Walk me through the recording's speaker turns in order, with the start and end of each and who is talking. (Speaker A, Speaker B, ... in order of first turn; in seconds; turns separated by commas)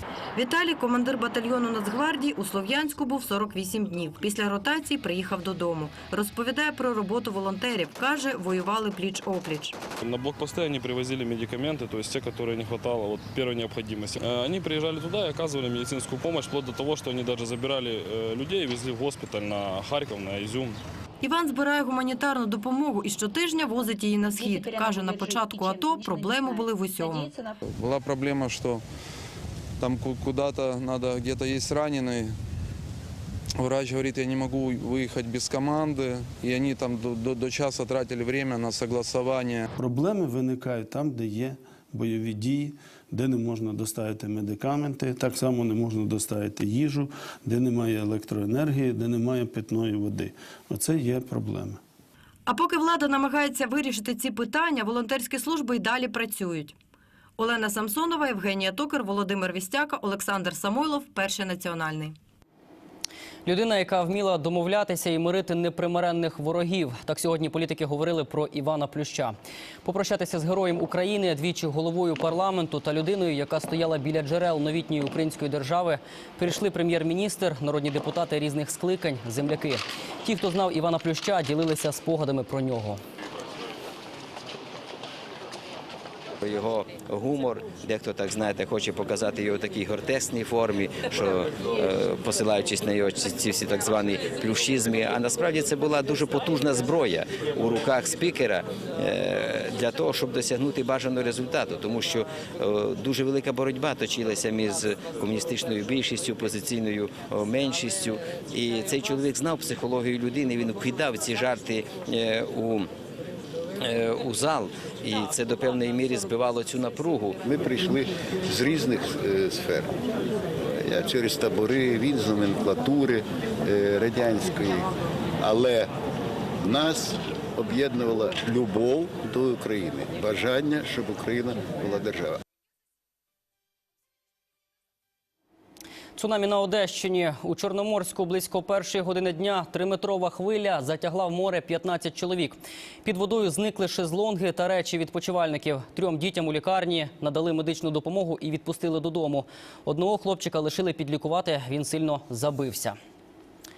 Speaker A: 0.3-9.8, Speaker B: 10.0-20.8, Speaker A: 21.2-27.3, Speaker C: 27.7-28.8, Speaker C: 29.8-32.3, Speaker C: 33.6-39.7, Speaker D: 39.7-51.8, Speaker A: 52.5-56.7, Speaker A: 57.4-62.1, Speaker E: 63.5-83.0, Speaker F: 86.4-112.9, Speaker F: 113.8-117.4, Speaker G: 117.4-120.0, Speaker G: 120.8-124.9, Speaker G: 125.4-125.9, Speaker G: 126.6-132.4, Speaker E: 136.2-152.9